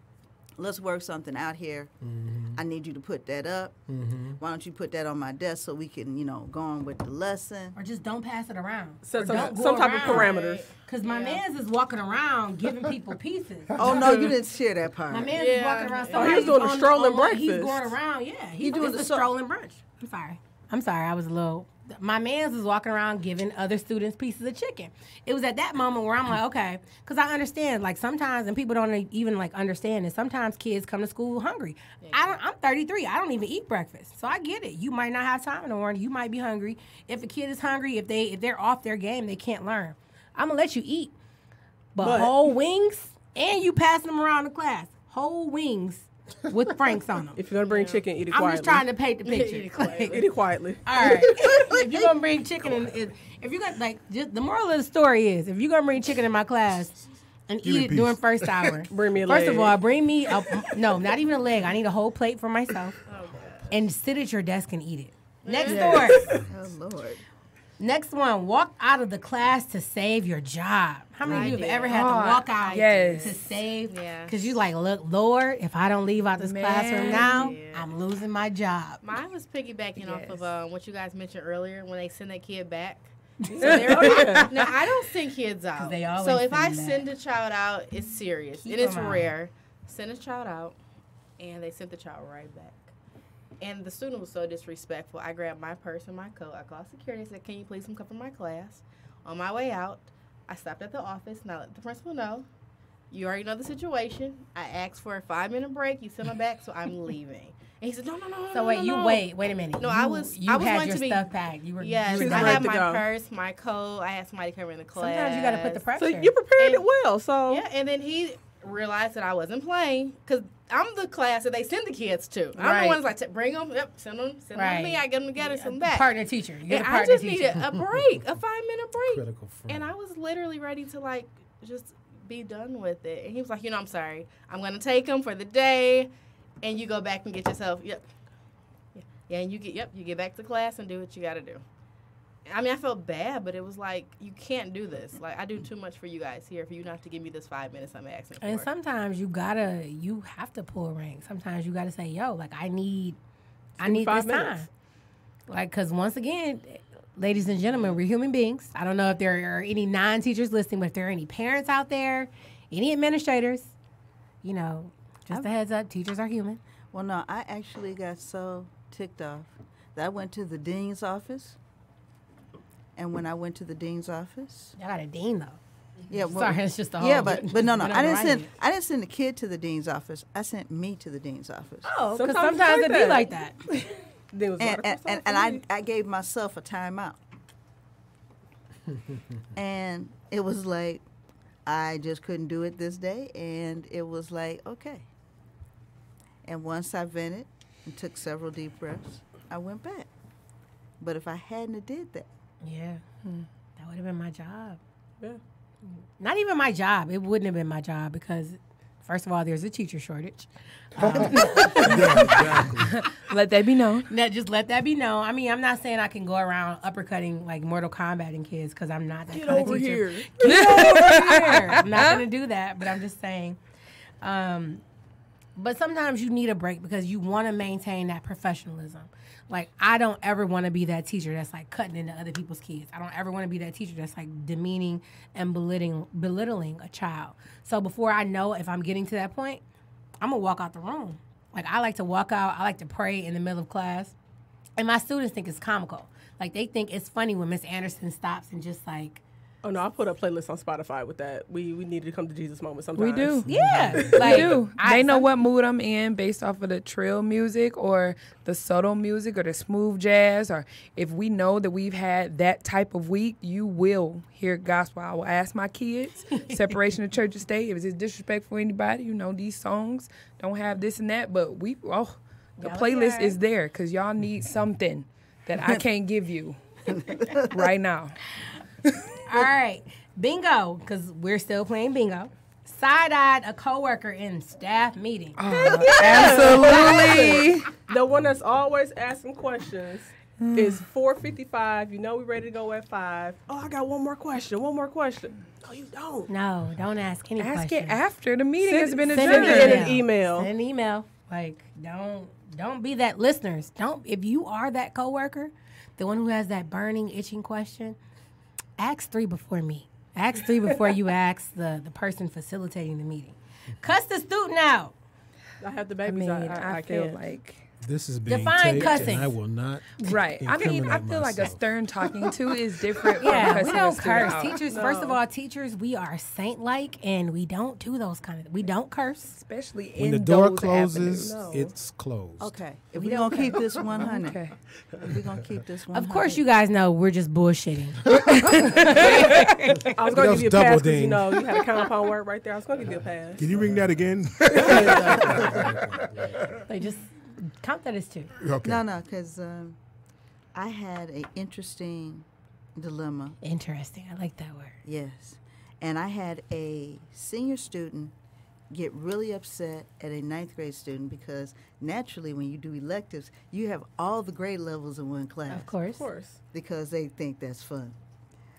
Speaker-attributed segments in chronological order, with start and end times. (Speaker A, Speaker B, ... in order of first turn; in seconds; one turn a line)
Speaker A: 0.6-1.9
Speaker B: 2.0-2.6
Speaker A: 2.5-7.8
Speaker B: 3.9-4.4
Speaker C: 7.8-14.2
Speaker D: 9.0-10.7
Speaker E: 9.3-11.4
Speaker A: 13.8-15.4
Speaker C: 15.1-41.1
Speaker E: 15.3-16.6
Speaker D: 16.1-17.9
Speaker A: 18.6-19.3
Speaker E: 32.0-32.4
Speaker C: 42.0-47.4
Speaker D: 42.0-42.4
Speaker D: 47.4-48.9
Speaker E: 47.7-48.1
Speaker C: 48.3-50.2
Speaker E: 49.2-50.3
Speaker D: 50.1-51.0
Speaker C: 50.8-63.0
Speaker F: 57.6-58.8
Speaker D: 58.9-59.8
Speaker E: 63.0-63.7
Speaker C: 63.7-66.3
Speaker E: 65.5-66.2
Speaker D: 65.7-66.5
Speaker A: 66.4-67.2
Speaker C: 67.8-79.0
Speaker E: 71.2-74.6
Speaker G: 71.9-73.4
Speaker G: 76.4-77.5
Speaker E: 77.0-77.9
Speaker E: 79.0-90.8
Speaker G: 80.0-80.5
Speaker D: 83.5-84.6
Speaker C: 83.5-84.4
Speaker C: 85.8-87.1
Speaker C: 88.6-89.3
Speaker E: 91.4-92.9
Speaker E: 93.6-102.5
Speaker E: 103.1-115.9
Speaker C: 108.5-112.8
Speaker D: 112.1-113.1
Speaker C: 115.0-116.3
Speaker D: 116.0-117.6
Speaker E: 116.6-116.9
Speaker E: 117.5-126.1
Speaker C: 122.5-123.0
Speaker C: 124.5-127.6
Speaker E: 126.7-138.1
Speaker B: 127.7-128.3
Speaker B: 129.0-129.9
Speaker E: 138.9-141.6
Speaker E: 142.4-148.7
Speaker C: 148.4-153.2
Speaker D: 153.8-154.6
Speaker C: 153.8-154.7
Speaker C: 155.5-163.7
Speaker C: 164.4-166.6
Speaker A: 166.9-171.6
Speaker A: 172.9-174.7
Speaker C: 174.8-175.6
Speaker A: 176.1-181.9
Speaker C: 176.1-178.5
Speaker C: 181.8-183.8
Speaker D: 182.1-183.3
Speaker D: 184.3-185.6
Speaker A: 184.6-187.2
Speaker A: 189.6-191.1
Speaker A: 191.7-195.1
Speaker A: 196.4-200.1
Speaker A: 201.0-202.3
Speaker C: 202.6-203.0
Speaker C: 203.8-204.8
Speaker C: 206.2-212.7
Speaker B: 211.0-212.9
Speaker G: 211.3-214.1
Speaker F: 211.9-212.8
Speaker C: 214.1-223.6
Speaker D: 219.3-221.1
Speaker G: 220.4-222.2
Speaker C: 224.2-224.8
Speaker C: 225.6-239.6
Speaker C: 240.2-244.2
Speaker C: 244.8-249.2
Speaker D: 249.6-253.5
Speaker G: 252.9-253.4
Speaker C: 253.4-255.3
Speaker B: 253.5-254.5
Speaker G: 254.1-278.2
Speaker C: 266.3-266.7
Speaker C: 272.6-273.4
Speaker A: 276.9-277.7
Speaker C: 279.3-287.4
Speaker G: 285.4-287.7
Speaker D: 285.5-296.3
Speaker G: 290.4-290.8
Speaker C: 296.3-298.0
Speaker G: 297.4-299.9
Speaker D: 298.6-300.5
Speaker C: 299.1-308.0
Speaker C: 308.8-314.9
Speaker D: 315.6-317.2
Speaker G: 316.0-317.6
Speaker B: 317.8-322.4
Speaker C: 318.3-319.4
Speaker G: 320.0-324.6
Speaker C: 323.2-329.4
Speaker D: 324.7-325.2
Speaker G: 329.3-331.5
Speaker B: 330.0-332.6
Speaker D: 331.2-331.8
Speaker A: 332.4-336.4
Speaker C: 332.9-333.8
Speaker G: 334.1-334.6
Speaker C: 335.9-338.2
Speaker B: 338.1-338.6
Speaker G: 338.3-339.4
Speaker C: 338.8-339.9
Speaker B: 339.9-341.5
Speaker D: 339.9-343.5
Speaker F: 343.4-346.3
Speaker D: 344.5-345.4
Speaker B: 345.5-346.4
Speaker C: 346.6-348.3
Speaker F: 348.4-348.8
Speaker A: 348.6-349.8
Speaker A: 350.5-353.4
Speaker C: 353.4-354.8
Speaker A: 354.8-358.1
Speaker A: 358.7-365.7
Speaker C: 365.5-366.1
Speaker D: 365.8-366.4
Speaker A: 366.5-368.0